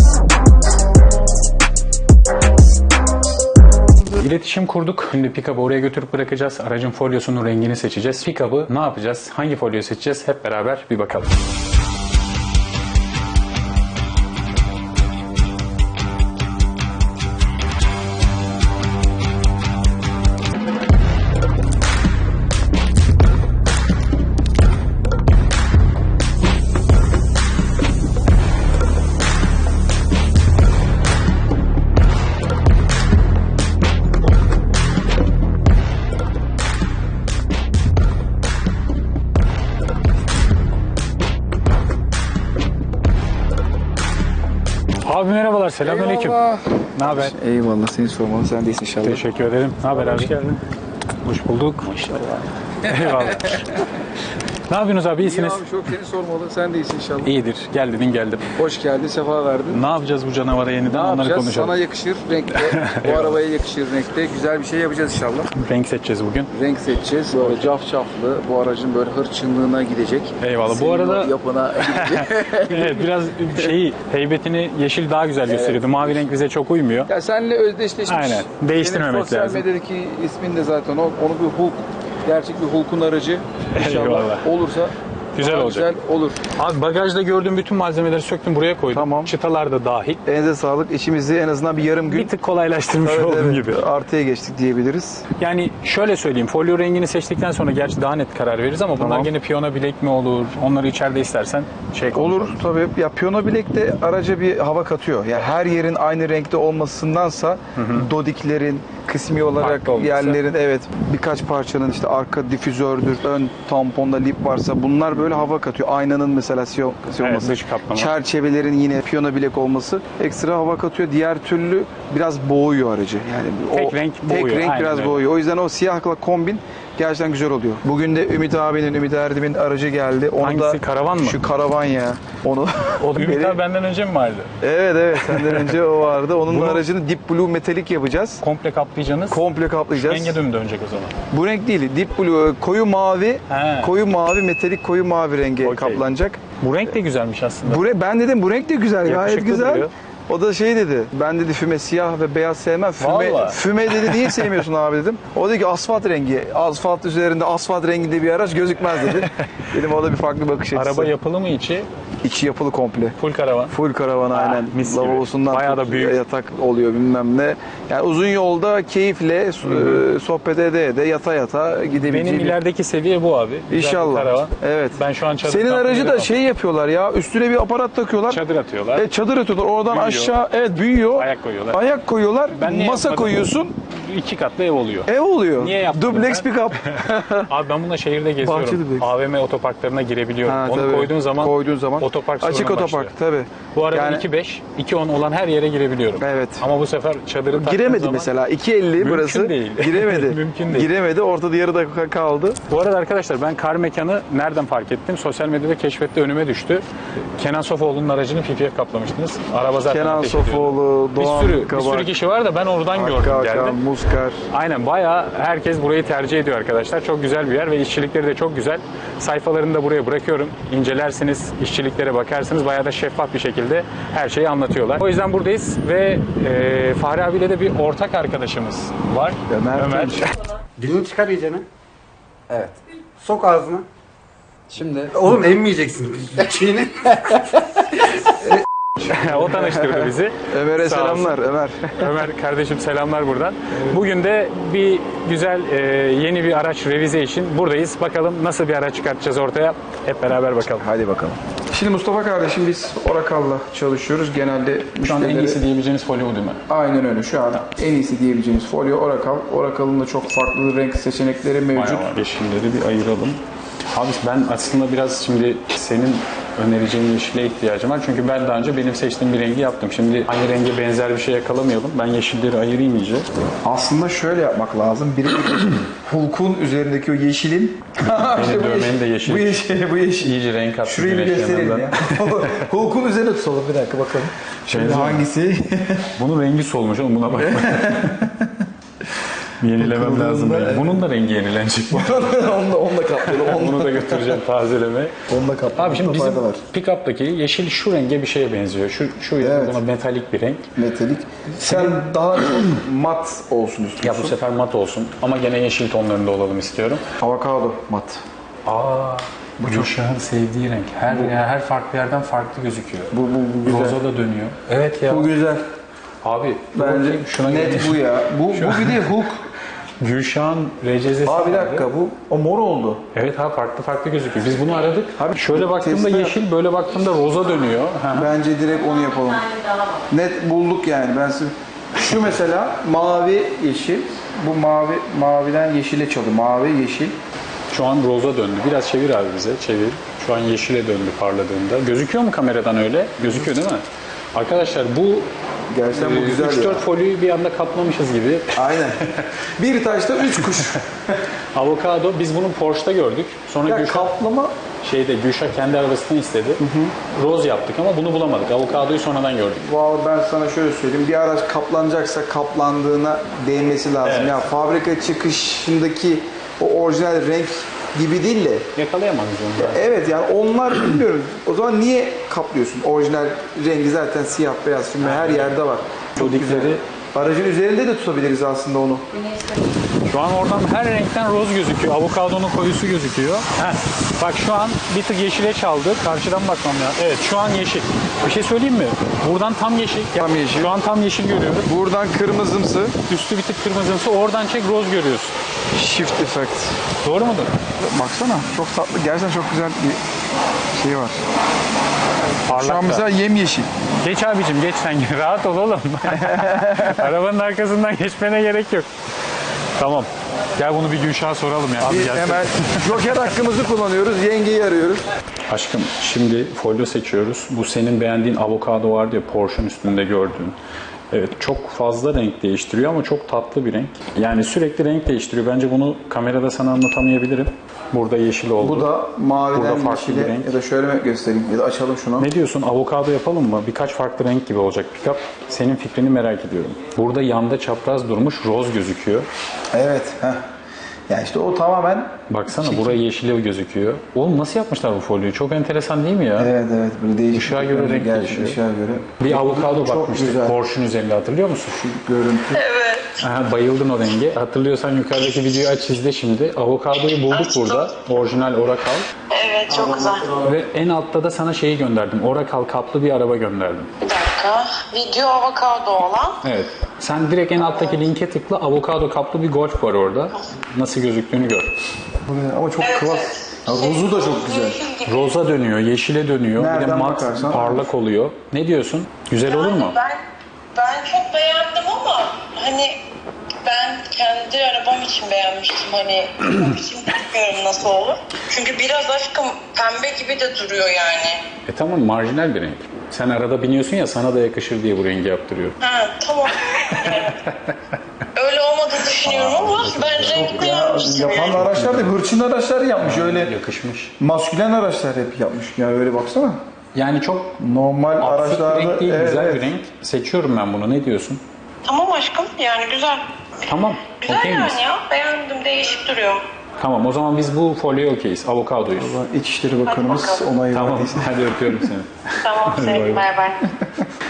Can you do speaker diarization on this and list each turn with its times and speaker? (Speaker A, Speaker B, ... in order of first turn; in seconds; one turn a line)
Speaker A: 4.1-11.3
Speaker A: 45.0-46.4
Speaker B: 45.8-49.2
Speaker A: 47.0-47.4
Speaker A: 49.0-50.6
Speaker A: 51.2-52.2
Speaker B: 52.1-53.7
Speaker A: 52.8-53.8
Speaker A: 54.7-55.6
Speaker B: 55.2-57.3
Speaker A: 57.2-58.5
Speaker B: 58.6-59.8
Speaker A: 59.7-61.8
Speaker B: 60.9-65.5
Speaker A: 62.6-63.4
Speaker A: 65.5-66.5
Speaker B: 66.5-73.7
Speaker A: 67.4-67.7
Speaker A: 70.4-71.3
Speaker A: 71.9-77.1
Speaker B: 75.5-76.4
Speaker B: 77.1-86.5
Speaker A: 78.1-79.7
Speaker A: 83.7-84.5
Speaker A: 85.3-85.9
Speaker A: 86.6-90.2
Speaker B: 88.9-89.3
Speaker B: 90.3-92.3
Speaker A: 92.1-93.8
Speaker B: 93.0-95.2
Speaker A: 95.4-102.6
Speaker B: 99.0-99.3
Speaker B: 102.1-133.6
Speaker A: 107.8-108.1
Speaker A: 109.6-110.4
Speaker A: 117.2-118.1
Speaker A: 123.7-125.3
Speaker A: 130.4-131.4
Speaker A: 133.0-134.5
Speaker B: 134.6-138.4
Speaker A: 135.2-135.8
Speaker A: 136.5-136.8
Speaker A: 138.4-139.4
Speaker B: 139.3-140.4
Speaker A: 139.9-141.2
Speaker B: 141.3-146.4
Speaker A: 143.5-143.9
Speaker A: 145.6-146.0
Speaker A: 146.6-147.8
Speaker B: 147.6-161.1
Speaker A: 149.1-149.9
Speaker A: 153.0-154.4
Speaker A: 159.2-159.6
Speaker A: 160.7-161.9
Speaker B: 162.2-163.2
Speaker A: 163.2-163.7
Speaker B: 163.7-172.6
Speaker A: 164.3-166.2
Speaker A: 169.6-170.0
Speaker A: 172.0-176.3
Speaker B: 173.7-178.4
Speaker A: 178.3-179.1
Speaker B: 178.9-183.8
Speaker A: 179.9-180.4
Speaker A: 181.2-181.8
Speaker A: 182.6-193.1
Speaker B: 185.1-187.5
Speaker B: 188.4-189.1
Speaker B: 190.4-194.3
Speaker A: 193.7-198.3
Speaker B: 196.2-196.7
Speaker B: 197.5-202.6
Speaker A: 199.0-200.9
Speaker A: 202.7-206.8
Speaker A: 207.4-213.8
Speaker B: 209.9-212.1
Speaker B: 212.9-214.4
Speaker A: 214.5-230.3
Speaker B: 229.5-230.3
Speaker C: 230.8-231.7
Speaker C: 232.5-233.9
Speaker C: 234.7-237.6
Speaker A: 239.0-241.4
Speaker B: 239.4-242.2
Speaker A: 242.0-250.9
Speaker B: 250.8-255.6
Speaker A: 255.0-256.6
Speaker B: 256.7-262.2
Speaker A: 261.7-263.4
Speaker A: 263.9-273.3
Speaker B: 273.6-286.1
Speaker A: 278.3-282.7
Speaker A: 284.7-285.3
Speaker A: 286.2-288.3
Speaker B: 287.3-288.7
Speaker A: 289.6-292.3
Speaker B: 289.6-291.1
Speaker B: 291.9-294.4
Speaker A: 293.2-295.2
Speaker B: 295.3-296.6
Speaker A: 295.8-300.7
Speaker B: 299.4-299.8
Speaker B: 300.8-304.4
Speaker A: 301.5-302.0
Speaker A: 304.0-307.0
Speaker B: 307.2-308.2
Speaker A: 308.7-315.3
Speaker B: 309.6-310.0
Speaker B: 311.1-311.4
Speaker B: 313.1-314.0
Speaker B: 315.1-315.7
Speaker A: 316.2-319.3
Speaker B: 316.8-319.4
Speaker A: 320.0-321.9
Speaker B: 321.2-323.0
Speaker A: 323.1-328.3
Speaker B: 325.2-326.4
Speaker B: 328.1-329.5
Speaker B: 330.1-337.2
Speaker A: 337.7-343.8
Speaker A: 344.3-345.3
Speaker B: 345.7-346.9
Speaker A: 345.9-349.3
Speaker B: 348.5-349.0
Speaker B: 349.6-350.8
Speaker A: 350.4-350.7
Speaker A: 351.6-354.1
Speaker B: 353.6-354.6
Speaker A: 354.8-359.7
Speaker B: 356.6-356.9
Speaker B: 359.6-368.7
Speaker A: 364.0-364.4
Speaker A: 368.8-369.8
Speaker B: 369.6-379.1
Speaker A: 375.0-375.6
Speaker A: 376.2-376.8
Speaker A: 380.1-391.7
Speaker B: 390.1-390.7
Speaker B: 391.6-393.0
Speaker A: 393.1-395.4
Speaker B: 395.7-396.8
Speaker A: 397.0-397.5
Speaker B: 397.8-400.0
Speaker B: 400.8-401.2
Speaker A: 402.4-403.1
Speaker B: 402.5-403.7
Speaker A: 404.0-408.9
Speaker B: 406.1-407.1
Speaker A: 409.8-412.9
Speaker B: 411.8-415.1
Speaker A: 415.5-420.6
Speaker A: 421.1-428.9
Speaker B: 428.6-432.3
Speaker A: 429.5-430.6
Speaker A: 432.2-439.3
Speaker B: 439.7-440.4
Speaker B: 441.1-443.0
Speaker A: 442.3-446.5
Speaker B: 446.4-450.6
Speaker A: 447.3-448.6
Speaker A: 449.2-451.9
Speaker B: 451.8-452.6
Speaker D: 452.6-453.2
Speaker A: 453.2-459.1
Speaker D: 457.3-458.0
Speaker D: 459.3-460.3
Speaker B: 459.7-460.5
Speaker A: 460.4-463.9
Speaker D: 464.0-466.4
Speaker A: 466.4-471.7
Speaker D: 467.6-468.0
Speaker B: 472.2-474.8
Speaker D: 472.8-475.3
Speaker A: 475.1-480.0
Speaker B: 476.6-477.9
Speaker D: 479.5-480.2
Speaker D: 480.7-483.0
Speaker D: 483.6-491.4
Speaker A: 491.7-495.8
Speaker D: 495.8-497.4
Speaker A: 496.9-497.5
Speaker D: 498.4-501.6
Speaker A: 499.2-500.7
Speaker B: 500.3-503.6
Speaker A: 501.2-502.2
Speaker A: 503.0-504.1
Speaker B: 504.2-506.6
Speaker A: 506.9-507.6
Speaker B: 507.6-509.7
Speaker A: 508.2-511.4
Speaker D: 511.9-513.3
Speaker A: 513.7-514.8
Speaker D: 514.1-516.4
Speaker A: 516.8-519.2
Speaker B: 518.9-521.9
Speaker D: 519.9-520.4
Speaker A: 520.7-523.2
Speaker D: 522.4-523.7